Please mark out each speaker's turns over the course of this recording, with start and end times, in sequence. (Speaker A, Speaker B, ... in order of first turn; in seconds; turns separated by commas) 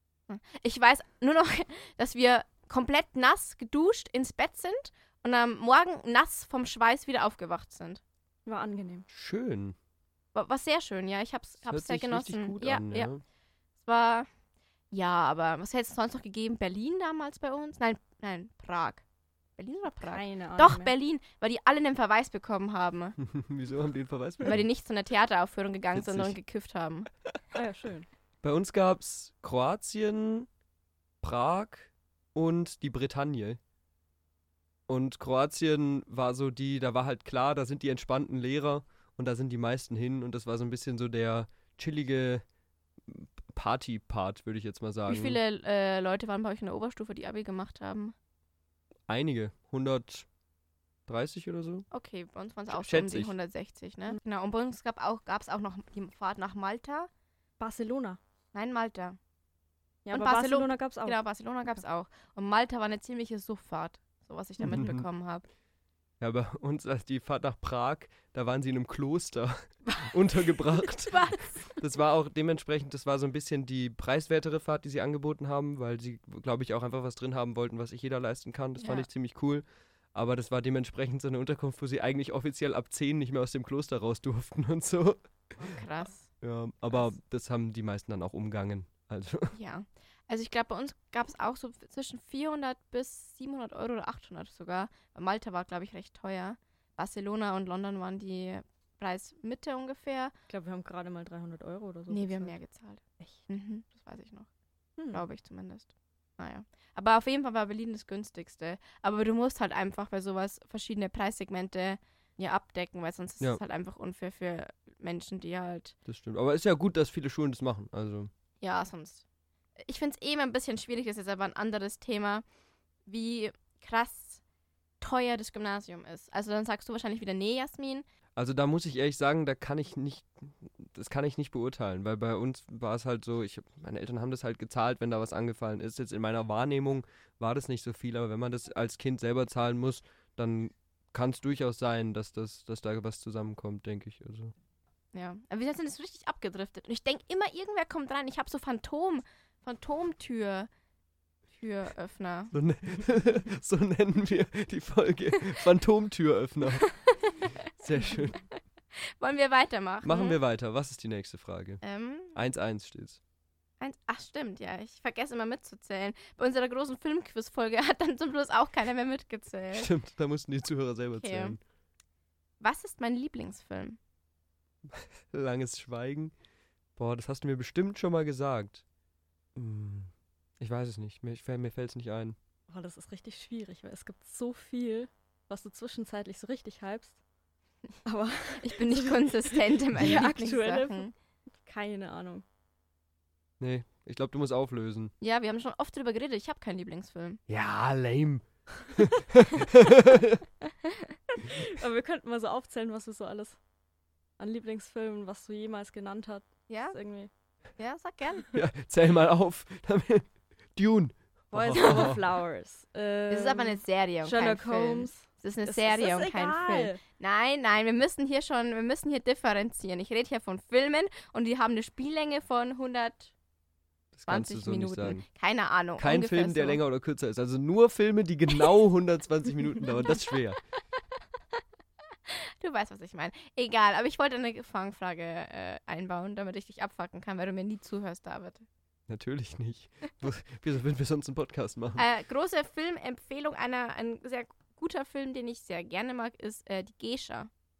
Speaker A: 0.3-8.0, Speaker B: 8.5-9.1, Speaker C: 9.1-9.8, Speaker A: 10.3-13.1, Speaker C: 11.7-13.2, Speaker A: 13.8-14.3, Speaker A: 14.9-19.0, Speaker A: 19.6-23.2, Speaker B: 20.1-20.9, Speaker C: 23.2-24.6, Speaker A: 24.4-27.1, Speaker C: 25.9-26.3, Speaker B: 27.5-28.1, Speaker C: 28.4-30.5, Speaker C: 31.2-33.6, Speaker C: 34.9-42.4, Speaker C: 43.1-45.4, Speaker A: 45.1-48.1, Speaker C: 49.1-50.3, Speaker C: 51.1-51.9, Speaker A: 51.9-57.1, Speaker C: 52.7-53.3, Speaker B: 57.6-58.2, Speaker A: 58.5-59.2, Speaker B: 60.0-61.2, Speaker A: 60.1-65.5, Speaker C: 64.6-65.0, Speaker C: 66.2-85.8, Speaker A: 71.1-71.7, Speaker A: 78.8-79.1, Speaker A: 85.6-86.3, Speaker C: 86.4-89.5, Speaker A: 89.5-100.3, Speaker B: 100.5-102.6, Speaker A: 102.1-104.5, Speaker B: 105.0-105.2, Speaker A: 105.1-116.0, Speaker C: 116.1-118.3, Speaker A: 118.6-119.2, Speaker A: 119.8-122.5, Speaker A: 123.1-124.4, Speaker A: 125.0-128.1, Speaker C: 128.4-144.5, Speaker A: 145.1-150.7, Speaker A: 151.5-152.5, Speaker C: 152.5-156.9, Speaker A: 156.8-157.4, Speaker C: 157.8-158.4, Speaker A: 159.1-160.4, Speaker C: 160.0-161.8, Speaker A: 161.8-162.4, Speaker C: 162.3-163.2, Speaker A: 163.8-169.9, Speaker C: 169.8-171.6, Speaker A: 171.2-171.6, Speaker A: 172.6-174.0, Speaker C: 174.9-176.3, Speaker C: 177.0-178.8, Speaker C: 179.6-182.4, Speaker B: 182.7-187.2, Speaker B: 188.1-191.1, Speaker A: 188.6-191.1, Speaker B: 191.6-192.4, Speaker C: 193.6-195.1, Speaker A: 195.2-197.4, Speaker C: 197.5-200.4, Speaker B: 201.4-203.6, Speaker B: 204.4-207.3, Speaker A: 206.7-207.0, Speaker A: 207.8-208.5, Speaker C: 208.5-212.2, Speaker B: 211.5-217.0, Speaker A: 211.7-212.2, Speaker A: 213.3-223.3, Speaker C: 224.1-225.2, Speaker A: 224.3-226.8, Speaker C: 226.0-230.6, Speaker A: 232.3-238.7, Speaker C: 239.1-242.0, Speaker A: 242.0-247.5